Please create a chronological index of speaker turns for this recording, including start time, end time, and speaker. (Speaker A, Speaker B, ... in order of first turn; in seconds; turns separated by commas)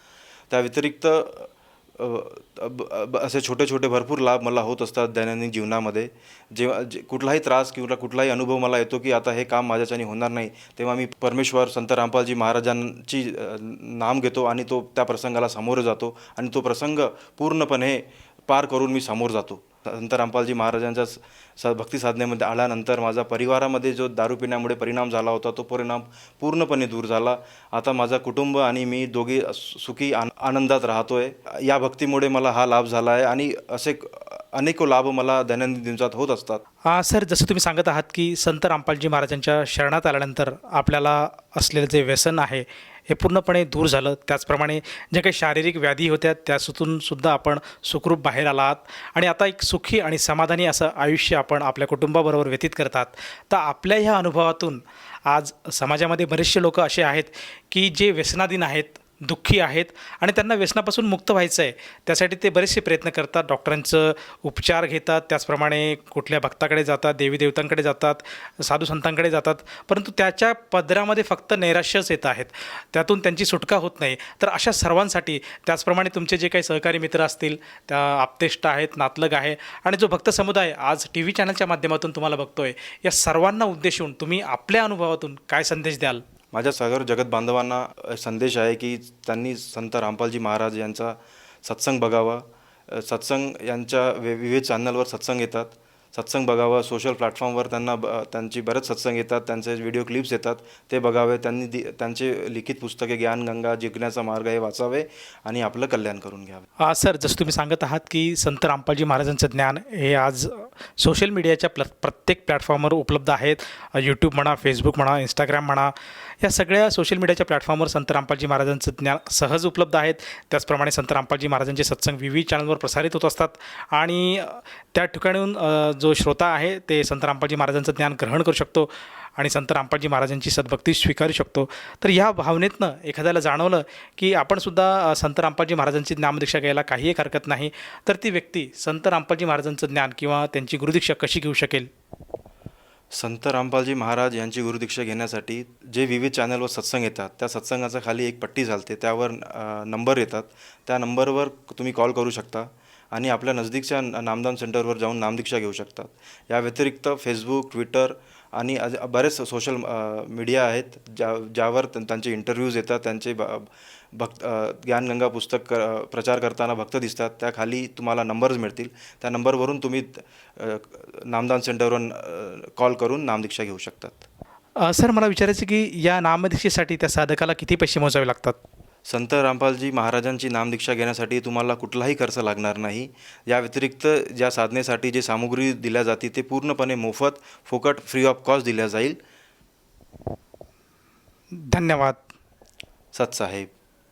Speaker A: 0.5-36.6, Speaker B: 36.9-86.2, Speaker A: 86.5-106.7, Speaker B: 106.9-141.9, Speaker A: 143.1-174.2, Speaker B: 174.9-178.6, Speaker A: 179.1-189.2, Speaker B: 191.6-192.2, Speaker A: 193.1-193.7